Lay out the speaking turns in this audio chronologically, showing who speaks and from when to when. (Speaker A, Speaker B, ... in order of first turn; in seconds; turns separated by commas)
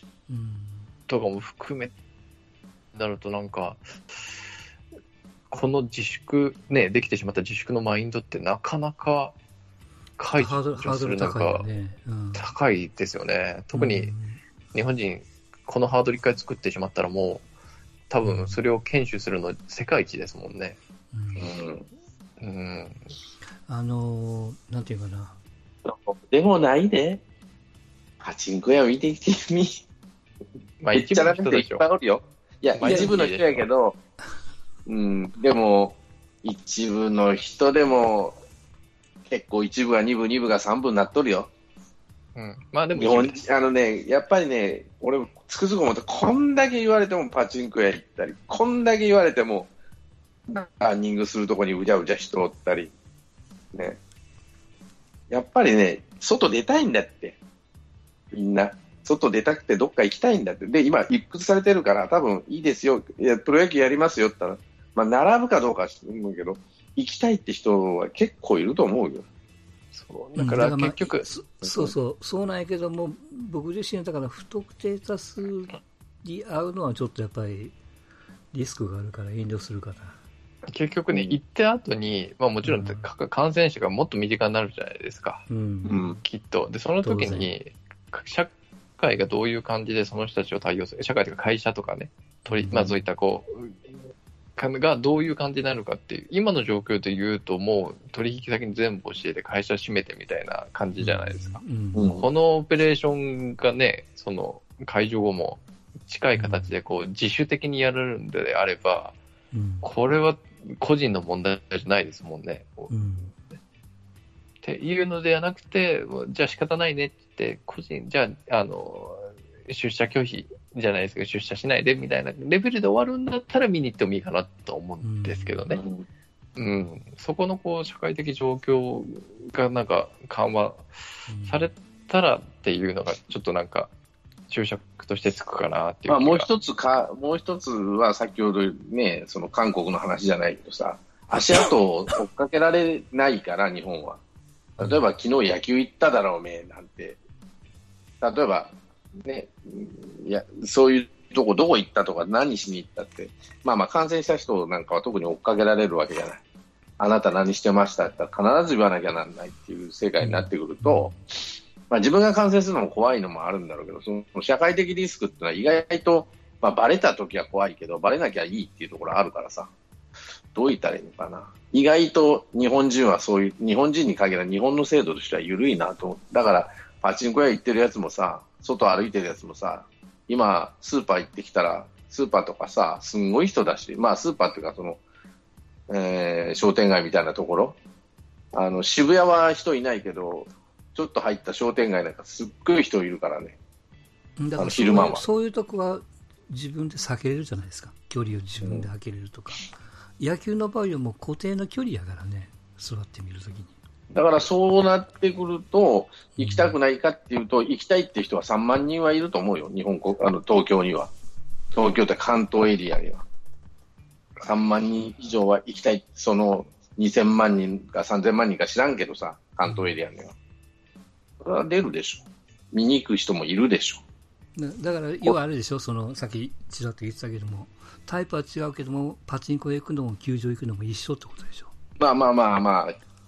Speaker A: 0.3-0.9, Speaker B: 1.1-1.9, Speaker B: 2.9-4.4, Speaker B: 5.5-9.3, Speaker B: 10.2-11.7, Speaker A: 10.4-12.5, Speaker B: 12.3-14.1, Speaker A: 13.7-14.4, Speaker B: 14.7-17.4, Speaker B: 18.1-20.8, Speaker A: 18.2-18.6, Speaker A: 21.1-21.5, Speaker C: 21.4-21.9, Speaker B: 22.4-23.1, Speaker A: 23.7-25.4, Speaker C: 25.9-27.2, Speaker C: 28.2-29.8, Speaker B: 30.8-31.8, Speaker C: 30.9-34.0, Speaker B: 32.8-33.6, Speaker A: 32.8-33.1, Speaker C: 34.9-38.4, Speaker C: 39.3-41.5, Speaker B: 42.4-43.5, Speaker C: 43.0-49.7, Speaker C: 50.5-52.9, Speaker C: 53.7-54.0, Speaker C: 55.3-57.4, Speaker C: 58.3-69.3, Speaker B: 69.9-71.3, Speaker A: 70.4-77.8, Speaker A: 78.5-80.2, Speaker B: 80.7-85.5, Speaker C: 81.1-81.4, Speaker A: 82.6-83.1, Speaker A: 85.5-86.1, Speaker C: 85.9-86.2, Speaker B: 86.2-94.0, Speaker A: 87.0-87.5, Speaker A: 92.5-93.0, Speaker B: 94.6-109.2, Speaker A: 101.0-102.1, Speaker C: 102.0-102.2, Speaker A: 106.3-106.7, Speaker A: 109.5-109.9, Speaker B: 109.8-113.4, Speaker A: 112.9-113.3, Speaker B: 114.6-125.8, Speaker A: 125.0-125.8, Speaker B: 126.6-133.9, Speaker A: 131.3-131.7, Speaker B: 134.5-136.5, Speaker C: 136.1-144.2, Speaker C: 144.8-147.2, Speaker C: 148.2-156.4, Speaker C: 157.0-161.2, Speaker A: 160.2-161.2, Speaker C: 161.9-169.7, Speaker C: 170.5-185.0, Speaker C: 185.9-187.8, Speaker C: 188.5-193.6, Speaker A: 194.4-203.8, Speaker C: 194.6-195.2, Speaker C: 198.6-198.9, Speaker C: 204.1-211.1, Speaker A: 206.4-206.8, Speaker C: 211.7-213.2, Speaker C: 214.4-220.3, Speaker A: 219.7-220.0, Speaker C: 221.4-224.0, Speaker A: 224.6-231.7, Speaker C: 232.0-232.9